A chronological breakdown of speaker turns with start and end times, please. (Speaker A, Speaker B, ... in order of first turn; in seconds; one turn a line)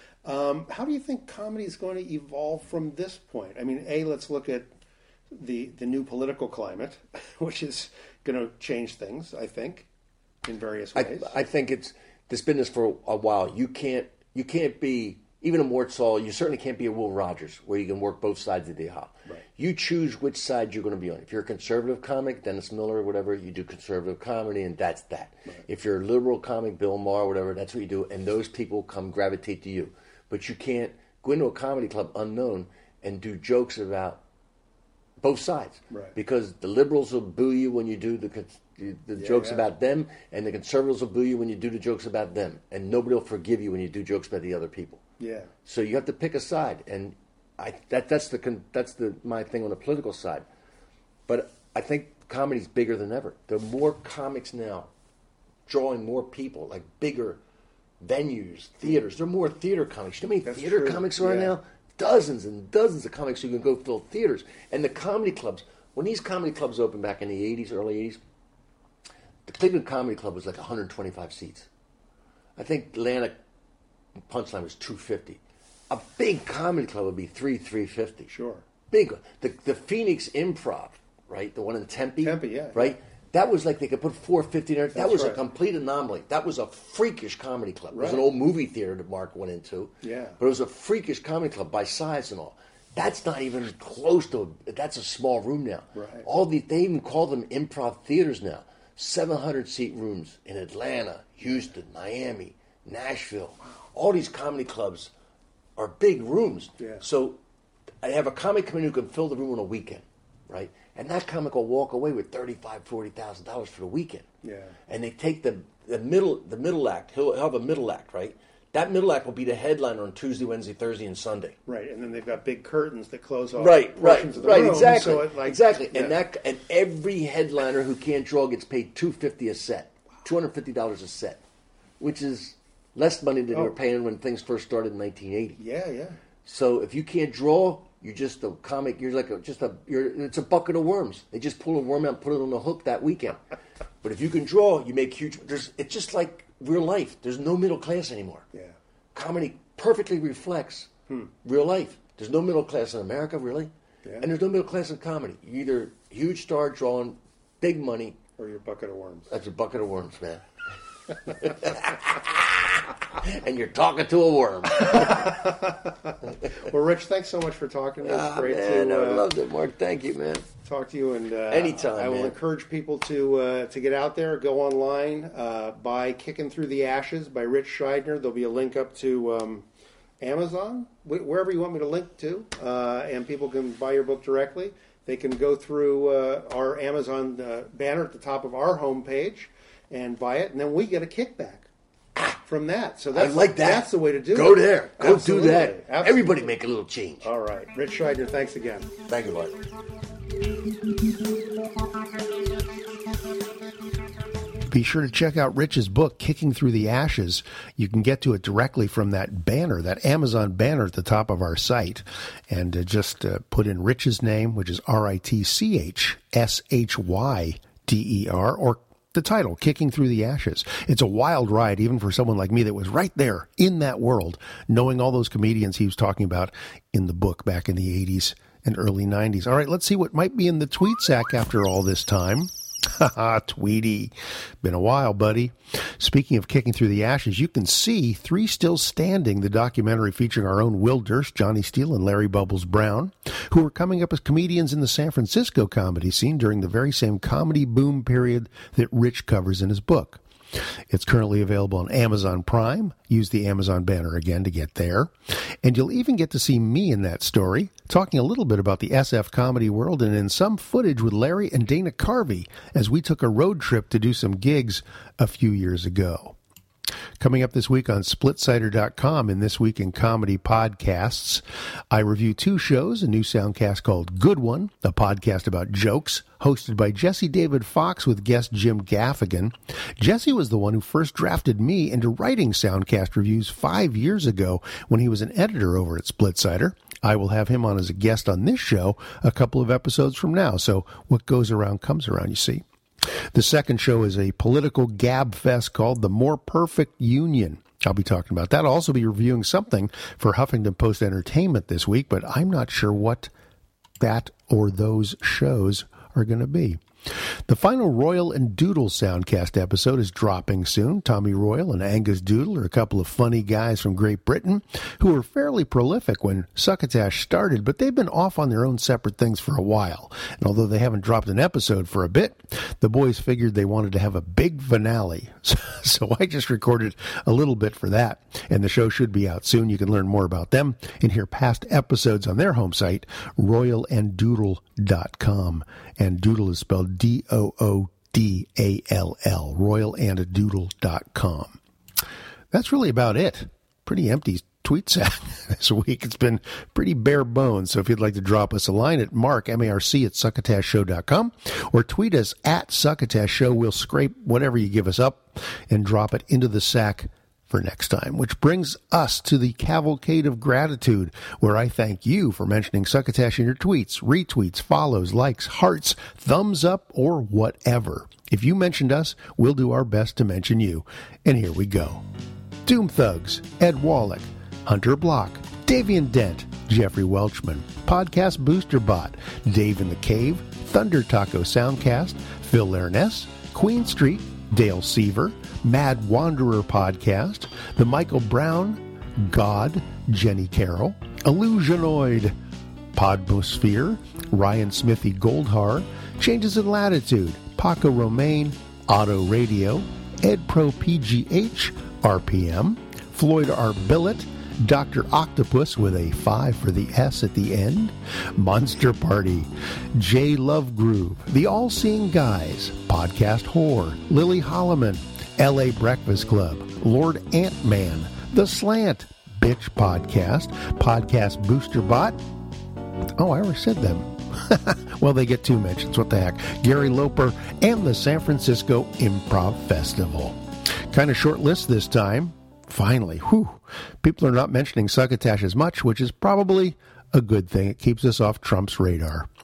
Speaker A: 0.2-4.7
Speaker A: 5.3-9.9
Speaker A: 10.4-11.3
Speaker B: 10.9-34.2
Speaker B: 35.2-45.0
Speaker A: 35.9-36.1
Speaker A: 39.1-39.6
Speaker A: 45.2-45.5
Speaker B: 45.6-50.5
Speaker B: 51.3-54.9
Speaker B: 55.6-57.4
Speaker B: 58.0-68.2
Speaker A: 60.4-61.5
Speaker B: 69.5-71.7
Speaker B: 72.5-73.4
Speaker B: 74.3-78.3
Speaker A: 78.3-78.6
Speaker B: 78.9-105.1
Speaker A: 82.2-82.9
Speaker A: 84.9-85.4
Speaker A: 87.9-88.2
Speaker A: 90.0-90.4
Speaker A: 95.9-96.3
Speaker B: 105.8-107.4
Speaker A: 106.8-107.0
Speaker B: 108.0-114.3
Speaker A: 114.4-114.8
Speaker B: 114.9-121.6
Speaker A: 121.7-126.2
Speaker B: 123.5-131.4
Speaker B: 132.0-135.6
Speaker A: 135.6-136.2
Speaker B: 136.4-143.4
Speaker B: 144.0-148.5
Speaker B: 149.1-150.9
Speaker B: 151.4-158.2
Speaker A: 158.4-159.3
Speaker B: 159.3-160.4
Speaker B: 161.2-165.5
Speaker A: 164.8-169.3
Speaker B: 166.3-166.6
Speaker B: 168.0-170.5
Speaker A: 170.6-179.7
Speaker B: 171.5-172.3
Speaker A: 180.2-191.7
Speaker A: 192.4-196.5
Speaker B: 193.1-197.3
Speaker A: 197.2-198.9
Speaker B: 199.1-199.5
Speaker C: 204.7-250.2
Speaker C: 250.9-255.1
Speaker C: 255.6-266.4
Speaker C: 267.2-292.6
Speaker C: 293.3-303.3
Speaker C: 304.0-341.6
Speaker C: 342.5-372.0
Speaker C: 372.6-392.4
Speaker C: 392.9-422.2
Speaker C: 423.2-430.4
Speaker C: 430.9-439.3